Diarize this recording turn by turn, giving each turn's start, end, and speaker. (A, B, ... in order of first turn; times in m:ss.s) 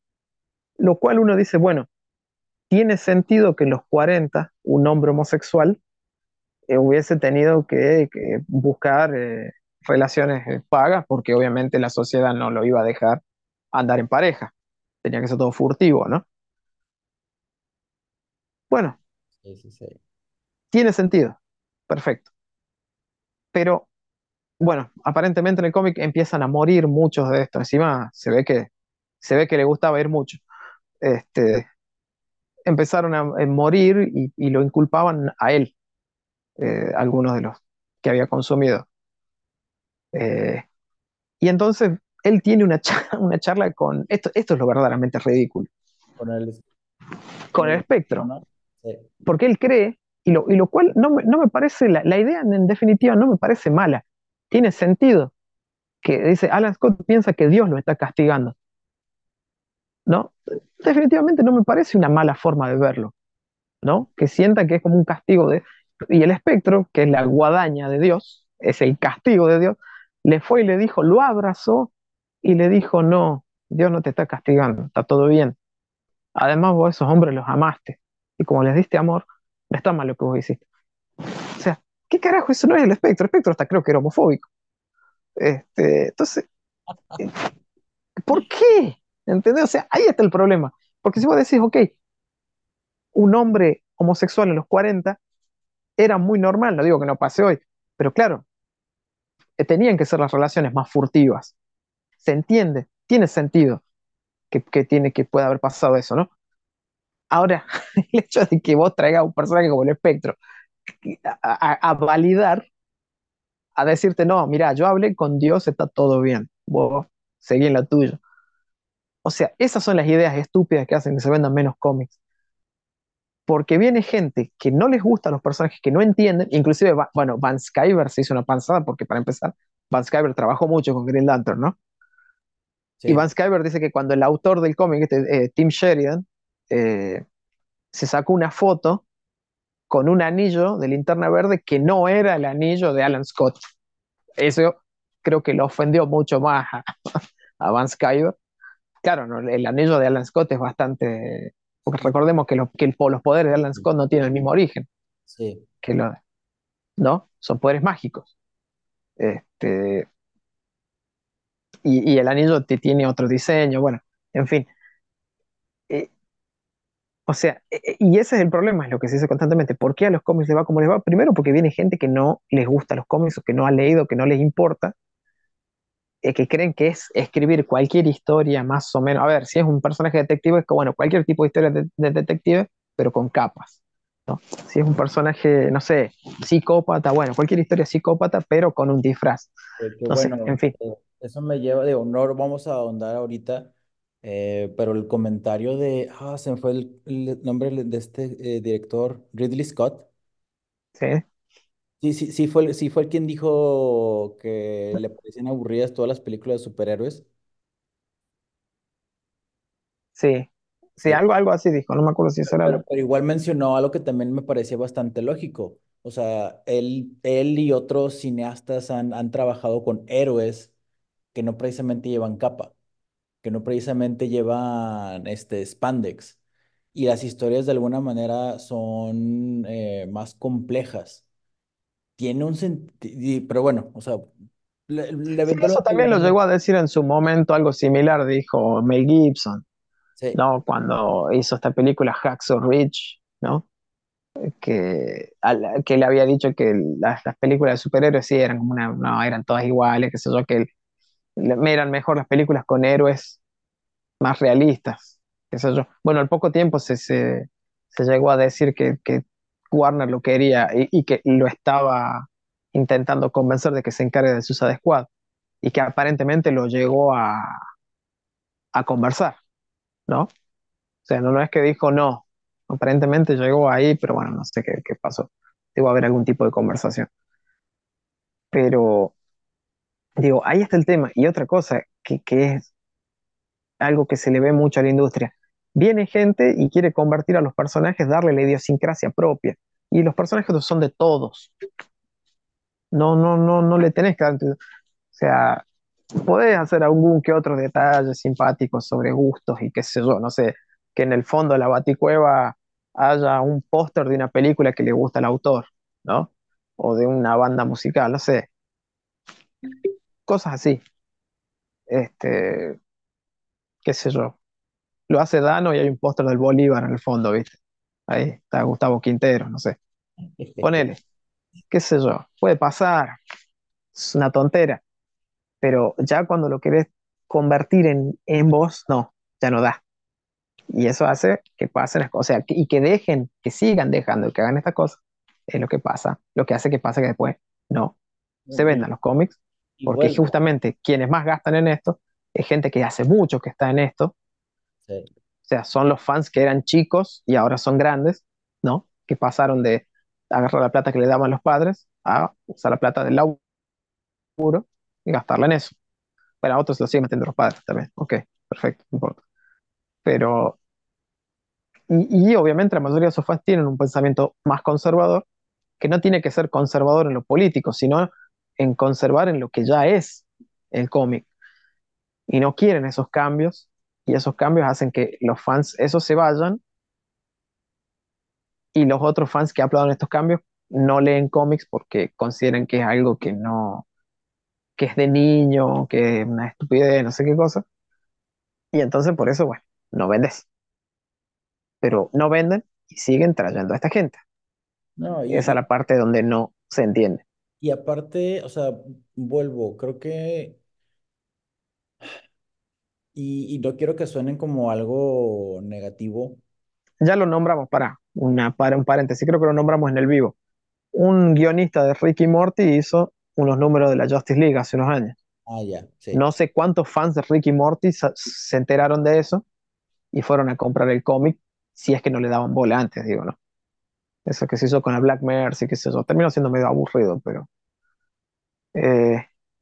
0:00.8-0:01.9 A
0:02.7-0:05.8 A
0:06.7-0:13.2 A
0:13.7-0:14.5 A
0:15.0-0:16.2 A
0:18.7-0:19.0 A
0:19.4-0:20.0 B
0:20.7-0:21.4 A
0:21.9-0:22.3 A
0:23.5-0:23.9 A
0:24.6-0:28.7 A
0:29.2-0:30.4 A
0:31.0-0:31.7 A
0:32.7-0:35.7 A
0:36.6-0:38.9 A
0:40.1-0:40.6 A
0:41.4-0:45.7 A
0:46.2-0:46.6 B
0:47.5-0:48.3 A
0:47.6-0:49.1 B
0:49.3-0:55.3 A
0:56.0-0:58.6 A
1:00.1-1:03.1 A
1:03.8-1:11.9 A
1:12.4-1:15.6 A
1:16.4-1:20.6 A
1:21.6-1:24.5 A
1:25.4-1:26.5 A
1:28.3-1:32.0 A
1:33.2-1:35.2 A
1:36.0-1:38.4 A
1:39.6-1:41.5 A
1:42.2-1:43.8 A
1:44.5-1:46.3 A
1:47.3-1:50.4 A
1:51.0-1:52.7 A
1:53.8-1:58.2 A
1:59.2-2:02.1 A
2:03.5-2:11.8 A
2:13.0-2:13.2 B
2:13.1-2:17.2 A
2:17.9-2:19.0 A
2:19.9-2:23.6 A
2:24.4-2:28.4 A
2:29.0-2:34.9 A
2:35.3-2:35.7 B
2:35.8-2:36.2 A
2:37.0-2:38.3 A
2:39.2-2:40.1 A
2:41.8-2:44.7 A
2:47.3-2:54.9 A
2:56.2-3:09.5 A
3:09.8-3:13.7 B
3:10.1-3:10.7 A
3:14.2-3:20.1 B
3:21.0-3:21.2 A
3:22.0-3:27.3 B
3:30.2-3:32.8 A
3:32.5-3:40.7 B
3:41.3-3:42.7 B
3:43.4-3:46.4 B
3:46.9-3:51.2 B
3:52.2-3:54.3 B
3:54.9-3:56.4 B
3:55.5-3:59.6 A
4:00.4-4:03.6 A
4:04.4-4:10.7 A
4:11.4-4:13.4 A
4:14.2-4:25.1 A
4:25.6-4:27.6 A
4:28.7-4:29.4 A
4:31.1-4:37.1 A
4:38.5-4:39.1 A
4:40.2-4:42.7 A
4:43.8-4:51.5 A
4:52.9-4:54.6 A
4:55.1-4:55.6 A
4:56.2-5:08.5 A
5:10.3-5:10.8 A
5:11.9-5:12.8 A
5:13.8-5:14.4 A
5:15.1-5:17.6 A
5:18.1-5:19.8 A
5:20.4-5:20.9 B
5:20.6-5:21.0 A
5:21.7-5:23.2 A
5:23.9-5:24.8 A
5:25.6-5:29.8 A
5:30.7-5:38.0 A
5:38.5-5:38.9 B
5:38.6-5:44.1 A
5:39.8-5:40.4 B
5:44.9-5:45.1 B
5:45.5-5:53.4 A
5:54.4-5:55.8 A
5:56.4-5:59.2 A
6:00.0-6:00.6 A
6:01.9-6:05.2 A
6:05.8-6:11.3 A
6:12.3-6:16.6 A
6:18.8-6:23.9 A
6:24.8-6:27.6 A
6:28.7-6:30.5 A
6:31.8-6:34.2 A
6:35.0-6:35.6 B
6:35.3-6:37.2 A
6:37.6-6:40.6 B
6:43.2-6:46.4 B
6:47.0-6:50.4 A
6:50.9-6:55.2 A
6:55.5-6:56.2 B
6:56.1-6:59.4 A
7:00.1-7:03.4 A
7:04.3-7:07.5 A
7:08.8-7:09.3 A